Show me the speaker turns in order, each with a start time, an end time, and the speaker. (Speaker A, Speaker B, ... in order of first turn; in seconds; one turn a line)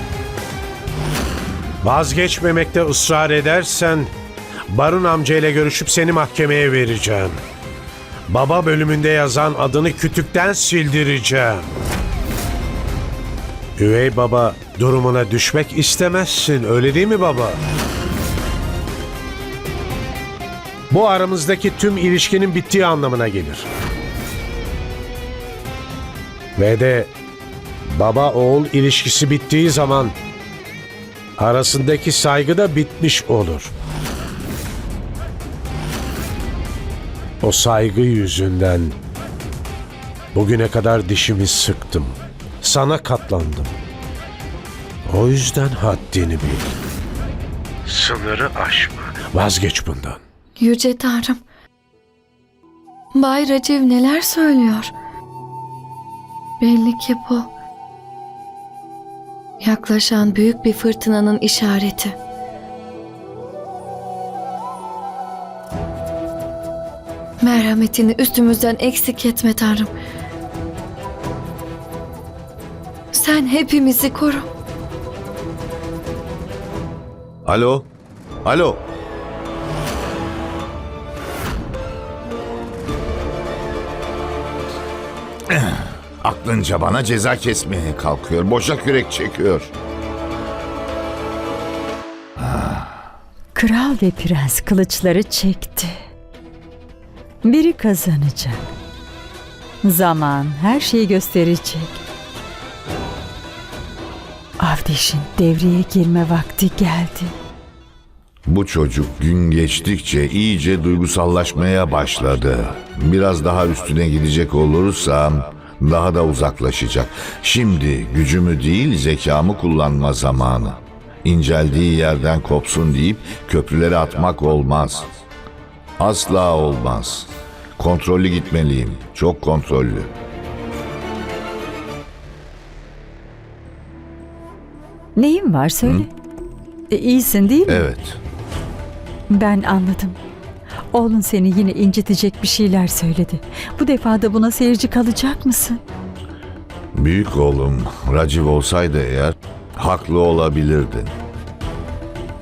Speaker A: 1.8-4.1
Speaker A: 4.7-7.4
Speaker A: 8.3-11.7
Speaker A: 13.8-17.6
Speaker A: 20.9-23.7
Speaker A: 26.6-27.1
Speaker A: 27.9-30.2
Speaker A: 31.4-33.7
Speaker A: 37.4-39.0
Speaker A: 40.3-43.7
Speaker A: 45.0-46.7
Speaker A: 47.8-50.2
Speaker B: 50.6-51.4
Speaker B: 53.1-54.9
Speaker B: 56.6-57.5
Speaker B: 59.6-62.1
Speaker B: 67.4-69.9
Speaker B: 73.1-74.5
Speaker C: 77.4-77.9
Speaker C: 78.4-78.8
Speaker C: 85.5-89.7
Speaker C: 92.4-92.8
Speaker D: 93.5-96.0
Speaker D: 97.4-98.6
Speaker D: 99.8-102.0
Speaker D: 104.6-107.3
Speaker C: 108.5-125.2
Speaker C: 126.0-130.1
Speaker D: 135.2-136.1
Speaker D: 136.9-137.9
Speaker C: 137.7-138.2
Speaker D: 139.3-140.2
Speaker D: 140.9-145.8
Speaker C: 146.9-151.2